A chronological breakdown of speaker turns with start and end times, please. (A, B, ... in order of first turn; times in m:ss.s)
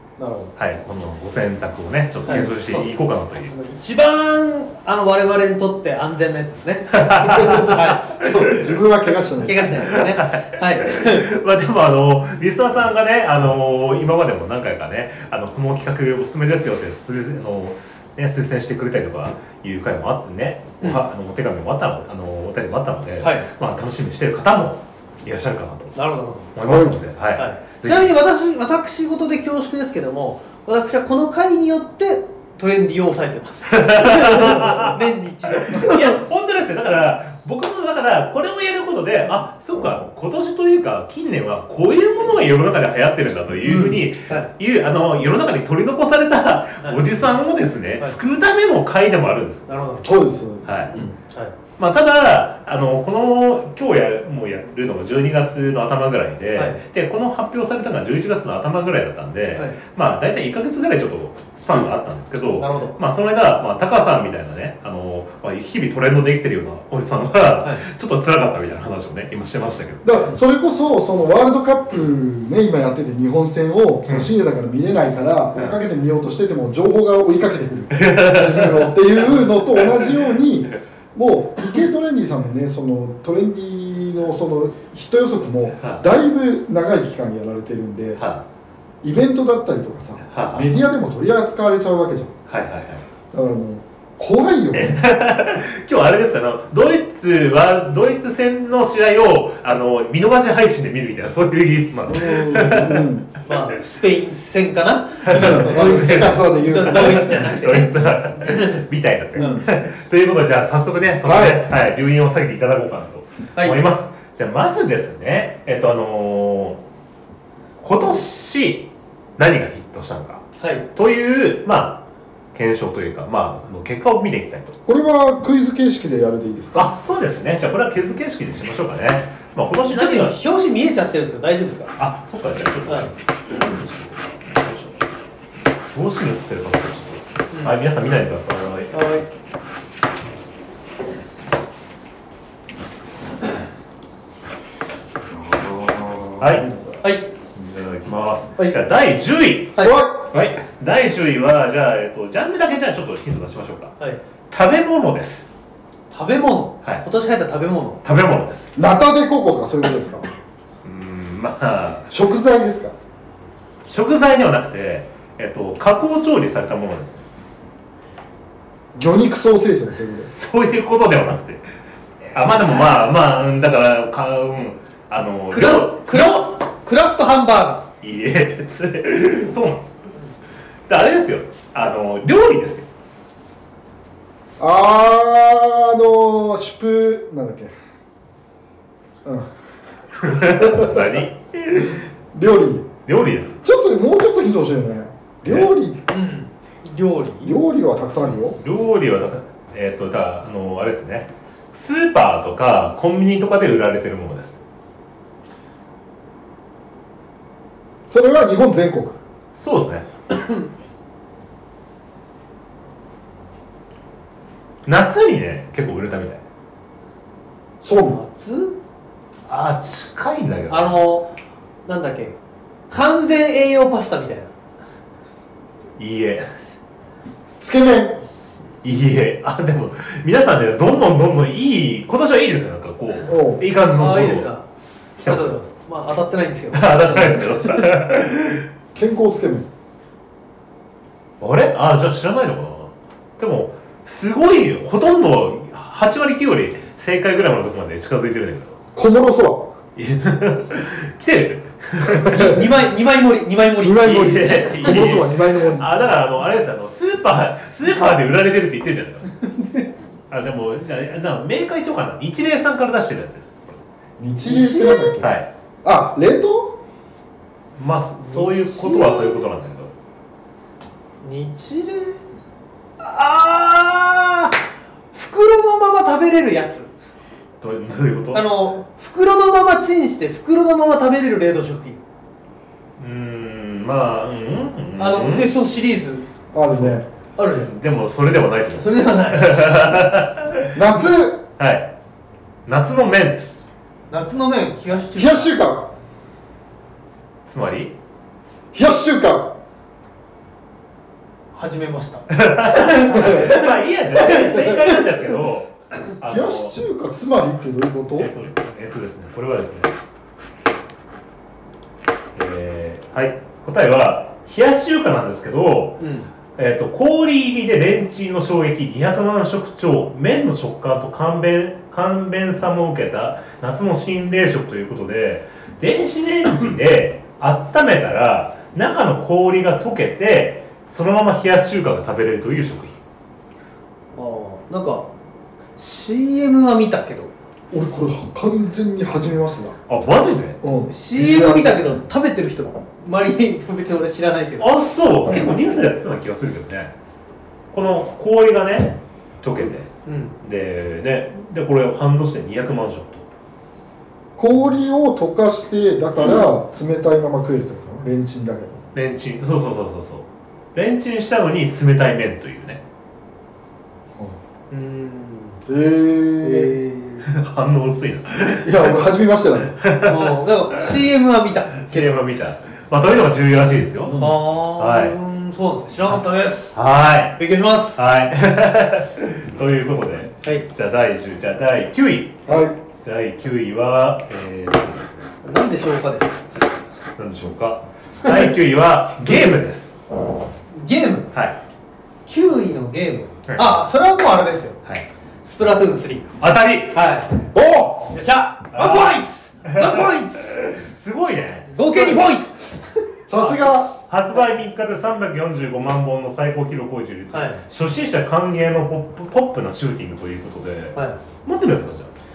0:00.2-0:00.5 A
0:00.6-0:03.5 B
0:02.3-0:02.9 A
0:03.5-0:08.0 A
0:06.9-0:08.8 B
0:07.2-0:09.7 C
0:09.3-0:11.3 A
0:09.8-0:26.0 B
0:23.2-0:23.5 A
0:26.0-0:26.5 A
0:26.5-0:28.2 B
0:26.6-0:27.0 C
0:27.4-0:36.2 A
0:33.7-0:35.0 B
0:35.6-0:49.7 B
0:43.6-0:44.1 C
0:49.7-0:50.1 A
0:50.0-0:51.1 C
0:50.6-0:51.0 B
0:50.9-0:51.6 A
0:51.8-1:10.2 B
0:56.6-0:56.8 A
1:02.6-1:02.9 A
1:10.0-1:28.2 C
1:17.9-1:19.2 B
1:19.8-1:20.1 B
1:28.2-1:28.4 B
1:29.0-1:32.3 C
1:30.3-1:30.7 B
1:32.5-1:33.1 B
1:33.3-1:35.0 C
1:34.8-1:43.1 B
1:42.1-1:43.3 C
1:43.4-1:48.8 A
1:45.2-1:56.8 B
1:45.3-1:47.3 C
1:49.4-1:49.6 A
1:49.4-1:49.6 C
1:51.2-1:51.6 C
1:57.8-2:04.8 B
2:00.6-2:00.9 A
2:04.9-2:06.9 C
2:06.8-2:10.4 B
2:09.9-2:12.0 A
2:12.0-2:15.0 B
2:15.9-2:18.9 B
2:17.5-2:17.8 A
2:18.9-2:19.3 A
2:25.3-2:27.0 C
2:26.4-2:26.6 B
2:27.0-2:27.3 A
2:27.6-2:34.0 B
2:29.8-2:30.3 C
2:34.5-2:35.5 B
2:36.1-2:38.0 A
2:38.0-2:38.7 B
2:38.8-2:40.3 C
2:40.8-2:42.1 B
2:42.1-2:42.9 C
2:43.9-2:47.2 B
2:49.0-2:50.3 C
2:50.2-2:51.7 B
2:52.3-2:56.4 B
2:52.5-2:52.8 A
2:55.5-2:57.9 A
2:58.0-2:59.8 B
3:00.9-3:02.9 B
3:04.6-3:07.7 C
3:09.2-3:09.5 C
3:10.2-3:12.0 B
3:10.3-3:11.1 C
3:12.3-3:12.9 C
3:13.1-3:13.6 B
3:13.6-3:16.0 C
3:15.4-3:15.7 B
3:16.1-3:17.6 A
3:17.4-3:18.6 C
3:18.6-3:24.6 B
3:28.1-3:29.2 C
3:29.5-3:30.1 B
3:30.3-3:30.7 A
3:34.9-3:36.4 B
3:37.8-3:38.2 C
3:38.0-3:38.8 A
3:39.5-3:41.0 B
3:40.7-3:41.3 A
3:41.9-3:42.4 A
3:42.9-3:44.5 A
3:46.0-3:46.5 B
3:47.6-3:48.2 C
3:48.8-3:54.5 B
3:53.3-3:53.6 C
3:53.9-3:54.6 A
3:55.2-3:55.6 B
3:55.2-3:57.5 A
3:56.7-3:58.7 B
3:59.0-3:59.7 C
4:01.4-4:08.8 B
4:09.0-4:09.7 C
4:10.0-4:12.6 B
4:12.0-4:12.7 C
4:12.3-4:15.2 A
4:13.8-4:15.9 C
4:14.0-4:19.3 B
4:19.5-4:19.9 A
4:20.3-4:23.8 B
4:24.2-4:26.8 C
4:24.4-4:25.2 A
4:25.2-4:25.5 B
4:27.8-4:29.9 B
4:28.3-4:29.5 A
4:31.2-4:32.2 A
4:33.0-4:34.6 A
4:35.1-4:36.9 A
4:37.6-4:38.5 B
4:38.3-4:42.0 A
4:43.0-4:45.5 B
4:45.0-4:46.3 A
4:46.5-4:47.1 C
4:46.6-4:47.0 B
4:47.4-4:47.7 A
4:47.6-4:50.8 B
4:48.8-4:50.0 A
4:50.7-4:51.4 C
4:51.6-4:51.9 B
4:52.7-4:53.6 B
4:54.1-4:55.5 A
4:55.2-4:55.9 C
4:57.5-4:57.9 B
4:58.7-4:59.6 C
5:01.5-5:05.0 A
5:02.3-5:06.7 B
5:03.1-5:03.6 C
5:04.5-5:04.8 C
5:06.2-5:08.3 C
5:08.2-5:09.9 B
5:12.4-5:16.0 B
5:16.0-5:16.3 A
5:16.6-5:33.0 B
5:34.2-5:35.1 A
5:35.8-5:37.3 A
5:37.7-5:39.8 C
5:39.9-5:40.6 B
5:40.6-5:41.9 C
5:40.9-5:44.8 A
5:44.6-5:46.9 B
5:47.7-5:49.9 B
5:50.1-5:50.3 A
5:50.4-5:53.3 B
5:54.4-5:58.8 C
5:58.9-6:02.8 B
6:04.7-6:05.6 A
6:05.7-6:06.8 C
6:06.4-6:07.3 A
6:07.3-6:08.9 B
6:08.6-6:09.8 C
6:09.6-6:10.8 B
6:10.0-6:12.1 A
6:11.8-6:15.2 B
6:14.1-6:14.4 C
6:14.1-6:16.8 A
6:16.7-6:22.5 B
6:17.4-6:18.1 A
6:22.5-6:22.8 C
6:23.0-6:25.3 B
6:25.4-6:26.5 A
6:27.2-6:29.9 B
6:28.2-6:28.5 A
6:30.7-6:31.3 A
6:32.3-6:34.8 A
6:33.5-6:33.8 B
6:35.4-6:36.3 A
6:36.4-6:37.0 B
6:36.9-6:37.3 A
6:37.5-6:38.1 C
6:38.1-6:40.6 A
6:38.7-6:42.3 B
6:41.7-6:43.0 A
6:43.3-6:43.9 C
6:43.4-6:52.1 B
6:47.3-6:47.6 A
6:51.0-6:51.2 A